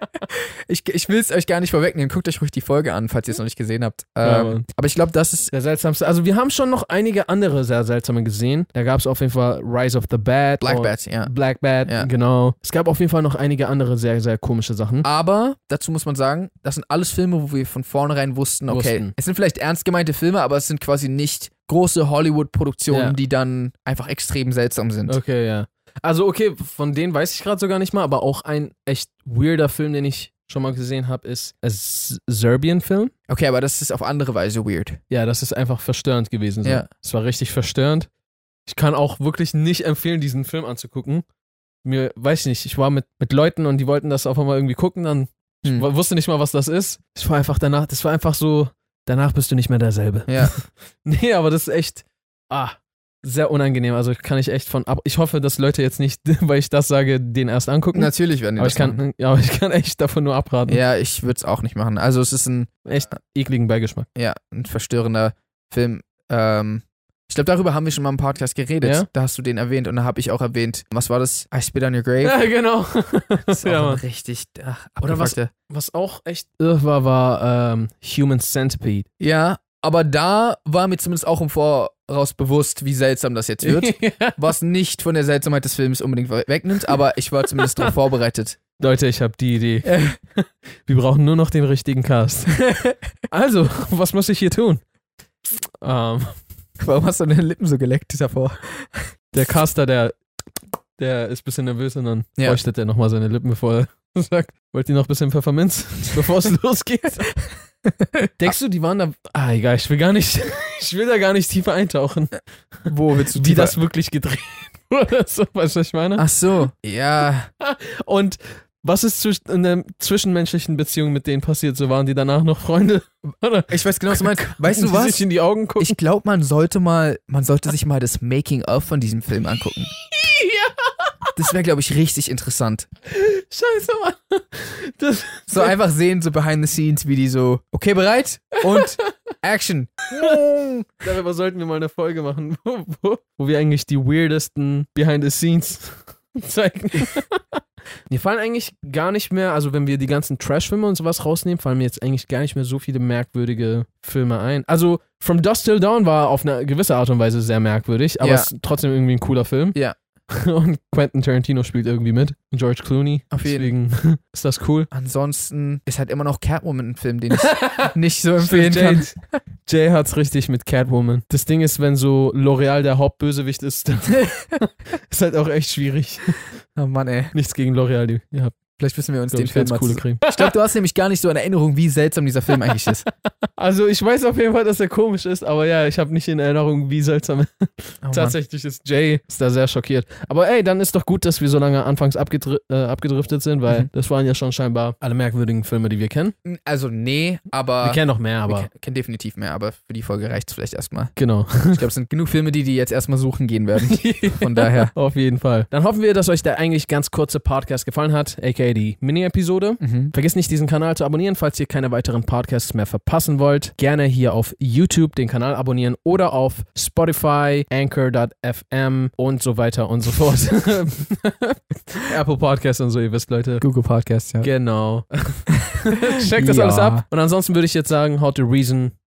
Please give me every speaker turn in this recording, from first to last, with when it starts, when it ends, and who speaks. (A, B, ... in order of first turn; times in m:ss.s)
0:00.7-0:05.5 A
0:04.2-0:04.6 B
0:05.5-0:15.1 B
0:10.6-0:11.3 A
0:15.0-0:25.2 A
0:18.7-0:19.1 B
0:22.9-0:23.2 B
0:25.1-0:33.1 B
0:33.3-0:35.0 A
0:35.1-0:38.1 B
0:38.7-0:41.2 B
0:41.8-1:00.8 B
0:50.3-0:50.5 A
0:57.9-0:59.0 A
1:00.7-1:02.8 A
1:02.8-1:04.1 B
1:04.2-1:12.4 A
1:08.8-1:09.1 B
1:12.2-1:14.0 B
1:13.5-1:15.5 A
1:15.0-1:19.0 B
1:19.2-1:28.6 A
1:23.6-1:24.4 B
1:27.6-1:27.9 B
1:28.8-1:32.6 B
1:29.8-1:30.2 A
1:32.7-1:33.0 A
1:33.3-1:34.8 B
1:35.8-1:36.3 B
1:36.8-1:39.1 A
1:39.3-1:40.2 B
1:41.0-1:47.3 B
1:48.2-1:48.5 A
1:48.4-1:56.2 B
1:52.9-1:53.8 A
1:56.2-1:57.5 A
1:57.6-2:06.0 B
2:03.7-2:05.2 A
2:05.8-2:09.9 A
2:10.1-2:11.2 B
2:11.4-2:12.9 A
2:13.1-2:15.7 B
2:15.5-2:21.0 A
2:18.7-2:19.1 B
2:21.0-2:27.4 B
2:28.1-2:44.9 B
2:38.2-2:38.5 A
2:43.3-2:43.7 A
2:44.9-2:49.1 A
2:47.4-2:56.5 B
2:56.8-2:57.3 A
2:57.3-2:58.5 B
2:58.8-3:03.0 A
2:59.3-3:00.5 B
3:03.6-3:16.3 B
3:08.0-3:08.4 A
3:16.4-3:21.1 A
3:17.8-3:18.7 B
3:21.2-3:21.8 B
3:21.7-3:24.9 A
3:23.9-3:43.6 B
3:29.8-3:30.1 A
3:43.6-3:44.5 A
3:44.4-3:48.9 B
3:46.3-3:47.0 A